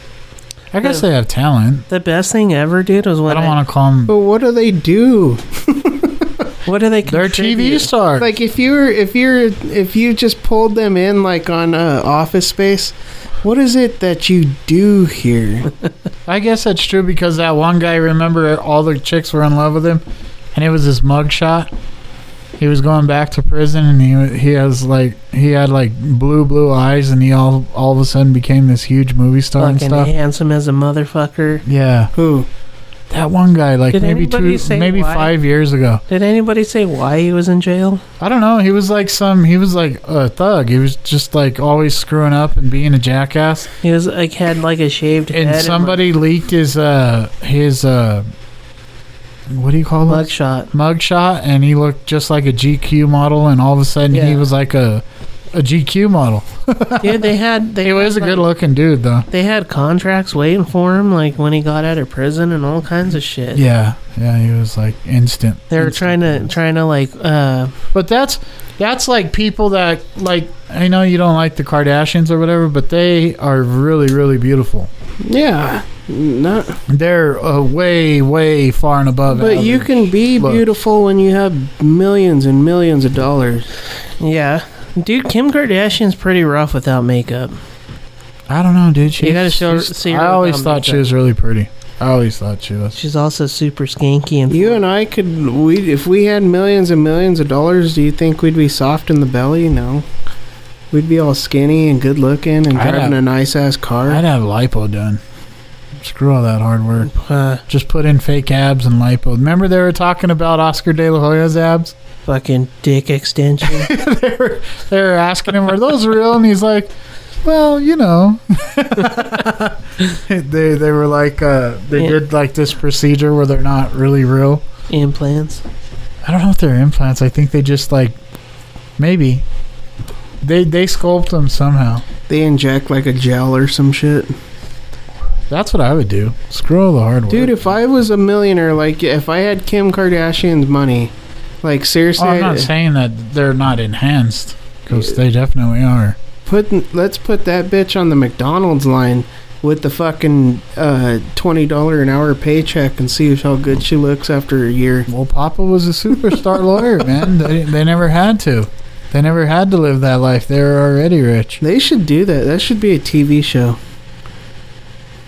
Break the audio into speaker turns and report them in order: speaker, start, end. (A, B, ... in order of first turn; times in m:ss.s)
0:00.7-0:01.8 A
0:01.9-0:03.6 B
0:03.3-0:04.1 A
0:04.1-0:06.3 C
0:06.6-0:07.9 B
0:07.0-0:08.3 A
0:08.2-0:15.7 C
0:16.2-0:20.0 A
0:20.5-0:21.7 A
0:22.6-0:30.1 A
0:29.6-0:31.6 B
0:31.6-0:32.1 A
0:32.1-0:32.5 C
0:33.1-0:36.0 A
0:33.9-0:35.3 B
0:36.1-0:38.0 B
0:38.2-0:43.7 A
0:43.8-0:46.0 B
0:45.3-0:48.3 A
0:49.5-0:59.2 A
0:50.0-0:50.7 B
0:54.1-0:54.4 B
0:57.0-0:58.4 B
0:59.3-1:03.6 B
1:03.5-1:06.5 A
1:05.7-1:07.7 B
1:07.9-1:14.9 A
1:15.2-1:16.8 C
1:16.9-1:20.6 A
1:19.3-1:23.7 C
1:24.2-1:27.6 B
1:28.5-1:33.0 A
1:29.2-1:31.1 B
1:32.9-1:34.8 B
1:34.5-1:40.0 C
1:40.9-1:44.2 C
1:42.7-1:43.2 A
1:44.0-1:45.2 A
1:46.0-1:47.1 A
1:47.1-1:47.6 B
1:47.7-1:51.9 A
1:52.2-1:53.9 B
1:53.6-2:04.6 A
2:04.9-2:05.6 B
2:06.2-2:08.2 A
2:09.0-2:09.4 A
2:10.4-2:12.0 A
2:12.3-2:14.3 C
2:15.5-2:17.7 A
2:17.3-2:21.1 C
2:21.6-2:22.7 C
2:22.2-2:26.2 A
2:26.4-2:35.1 C
2:35.1-2:41.6 A
2:41.6-2:43.8 C